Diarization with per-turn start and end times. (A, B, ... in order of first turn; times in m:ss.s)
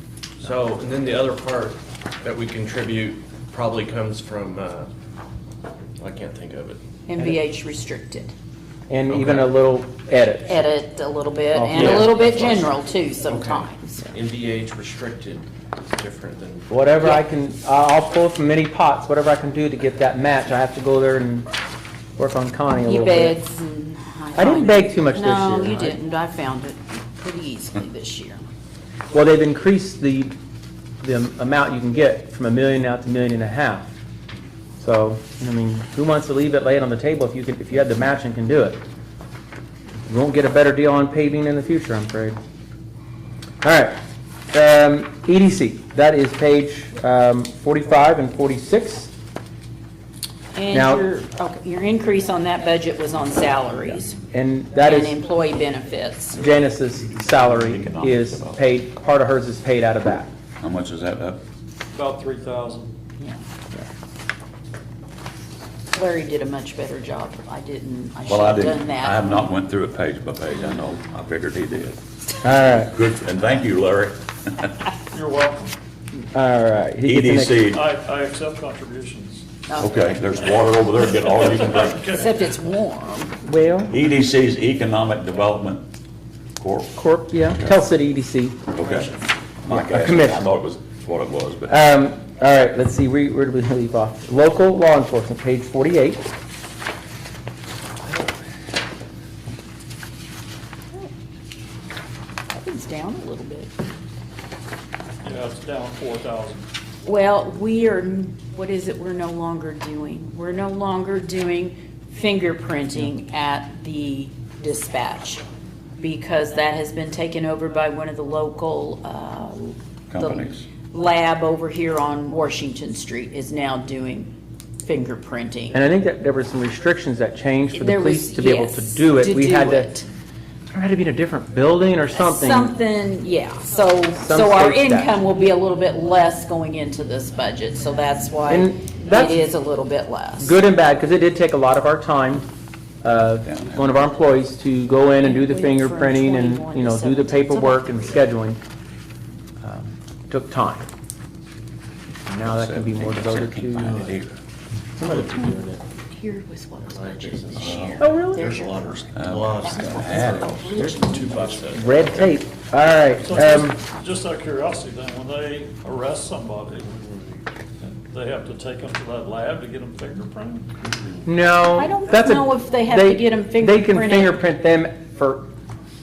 0:00.4-0:04.9 A
0:06.0-0:06.8 A
0:07.1-0:08.3 B
0:08.9-0:10.6 C
0:09.1-0:09.5 A
0:10.5-0:14.1 B
0:11.5-0:12.2 C
0:11.8-0:12.6 A
0:13.2-0:16.7 A
0:16.7-0:21.5 C
0:22.2-0:23.4 C
0:22.8-0:28.4 B
0:24.4-0:26.0 C
0:29.1-0:30.4 C
0:31.0-0:33.9 C
0:34.8-0:38.8 C
0:40.1-0:42.4 C
0:43.6-0:44.0 C
0:44.5-0:49.1 C
0:50.5-0:54.2 B
0:50.7-0:51.0 C
0:54.3-0:55.2 C
0:54.8-0:56.5 B
0:56.4-1:00.3 C
0:57.3-0:58.6 D
1:00.6-1:01.4 D
1:01.9-1:03.0 E
1:05.9-1:09.4 B
1:08.3-1:12.0 D
1:12.4-1:12.9 C
1:12.7-1:14.8 D
1:15.1-1:15.8 E
1:16.3-1:17.7 C
1:17.0-1:17.8 D
1:17.7-1:19.5 E
1:19.7-1:20.6 B
1:19.8-1:22.2 D
1:21.1-1:22.3 E
1:22.0-1:23.4 B
1:23.4-1:24.0 C
1:23.9-1:25.8 D
1:26.6-1:27.0 D
1:27.0-1:28.6 C
1:28.7-1:29.1 D
1:29.6-1:31.8 D
1:29.7-1:30.4 C
1:31.7-1:36.3 C
1:42.5-1:43.7 B
1:45.2-1:46.6 E
1:47.0-1:55.4 B
1:56.0-2:05.8 B
2:00.1-2:00.6 D
2:05.7-2:10.0 C
2:07.7-2:10.1 B
2:10.7-2:12.7 C
2:12.2-2:20.6 B
2:14.2-2:15.1 C
2:18.5-2:19.4 C
2:20.4-2:22.4 C
2:23.0-2:28.6 C
2:23.4-2:24.0 D
2:25.2-2:28.3 B
2:29.6-2:30.9 C
2:32.3-2:34.1 C
2:32.4-2:34.4 D
2:35.0-2:35.8 A
2:35.0-2:35.5 C
2:35.1-2:35.5 B
2:36.1-2:39.1 B
2:36.8-2:42.2 A
2:37.6-2:38.0 D
2:38.0-2:38.5 C
2:39.1-2:40.9 D
2:39.6-2:41.5 B
2:41.2-2:42.2 E
2:41.7-2:43.8 C
2:43.2-2:47.0 E
2:47.8-2:50.7 E
2:51.3-2:55.5 C
2:51.8-2:54.4 B